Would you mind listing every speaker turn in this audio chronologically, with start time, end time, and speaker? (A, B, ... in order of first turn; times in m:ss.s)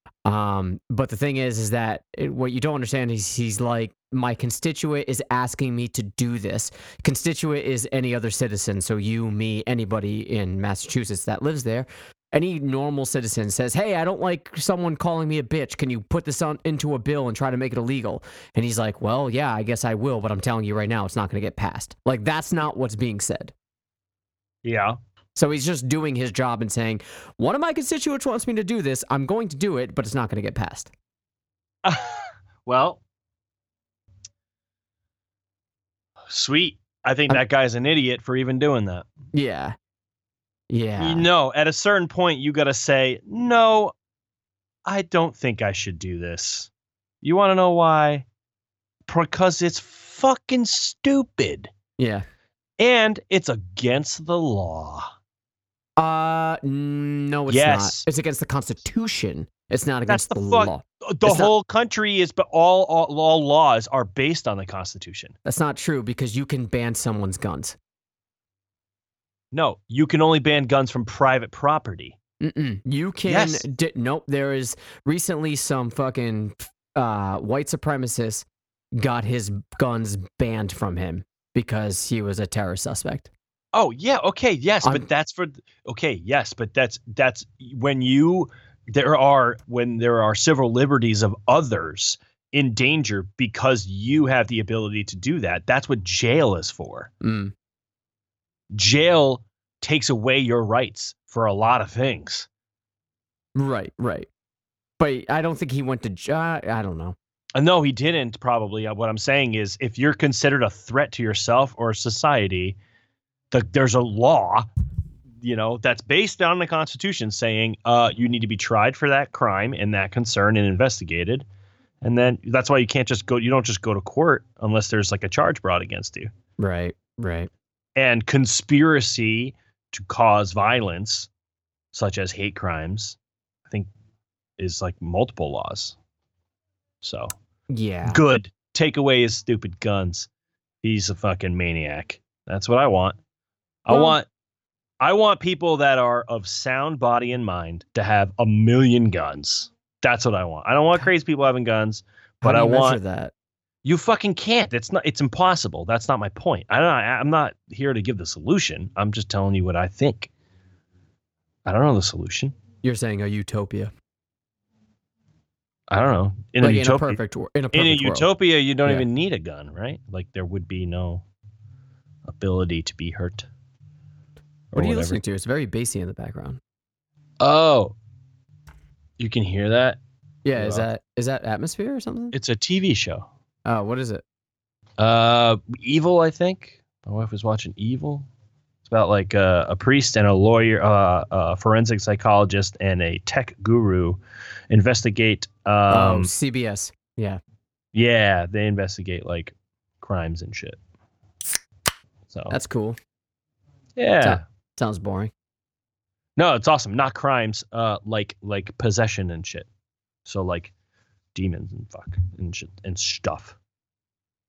0:00.2-0:23.5 A
0:24.6-0:25.0 B
0:25.3-0:30.9 A
0:31.8-0:33.0 B
0:36.2-0:39.1 B
0:39.3-0:39.7 A
0:40.7-0:41.3 A
0:41.0-0:43.9 B
0:44.8-0:46.7 B
0:47.2-0:48.2 B
0:49.1-0:51.7 B
0:52.0-0:52.2 A
0:52.8-0:55.1 B
0:56.0-1:01.5 A
0:57.5-0:58.0 B
1:00.1-1:05.3 B
1:05.4-1:07.8 A
1:09.5-1:12.2 B
1:12.4-1:23.3 A
1:13.3-1:13.6 B
1:23.7-1:37.1 B
1:37.2-1:37.5 A
1:38.7-1:42.5 B
1:43.5-1:44.3 A
1:45.0-1:47.1 A
1:47.6-1:52.8 B
1:53.5-1:54.7 B
1:55.4-2:01.4 B
2:02.0-2:06.3 B
2:06.6-2:07.5 A
2:08.0-2:11.3 B
2:11.9-2:13.9 B
2:14.6-2:16.0 B
2:17.0-2:17.3 B
2:17.7-2:18.2 A
2:18.0-2:20.3 B
2:20.8-2:23.2 B
2:23.8-2:24.3 B
2:23.9-2:24.2 A
2:25.0-2:33.0 B
2:32.4-2:33.3 A
2:33.8-2:40.3 B
2:41.6-2:42.5 B
2:42.8-2:43.9 A
2:45.9-2:47.2 B
2:46.6-2:48.3 A
2:47.7-2:51.2 B
2:52.2-2:53.5 B
2:54.7-2:55.2 B
2:54.7-2:56.6 A
2:57.4-2:57.9 B
2:59.2-3:00.0 B
3:00.4-3:02.4 A
3:00.5-3:00.8 B
3:02.3-3:03.3 B
3:03.6-3:04.2 A
3:05.0-3:08.3 B
3:08.8-3:16.3 B
3:15.9-3:17.4 A
3:17.9-3:20.8 B
3:22.5-3:23.0 A
3:24.0-3:24.4 B
3:24.2-3:25.3 A
3:26.4-3:29.7 B
3:30.2-3:30.7 B
3:31.3-3:33.6 B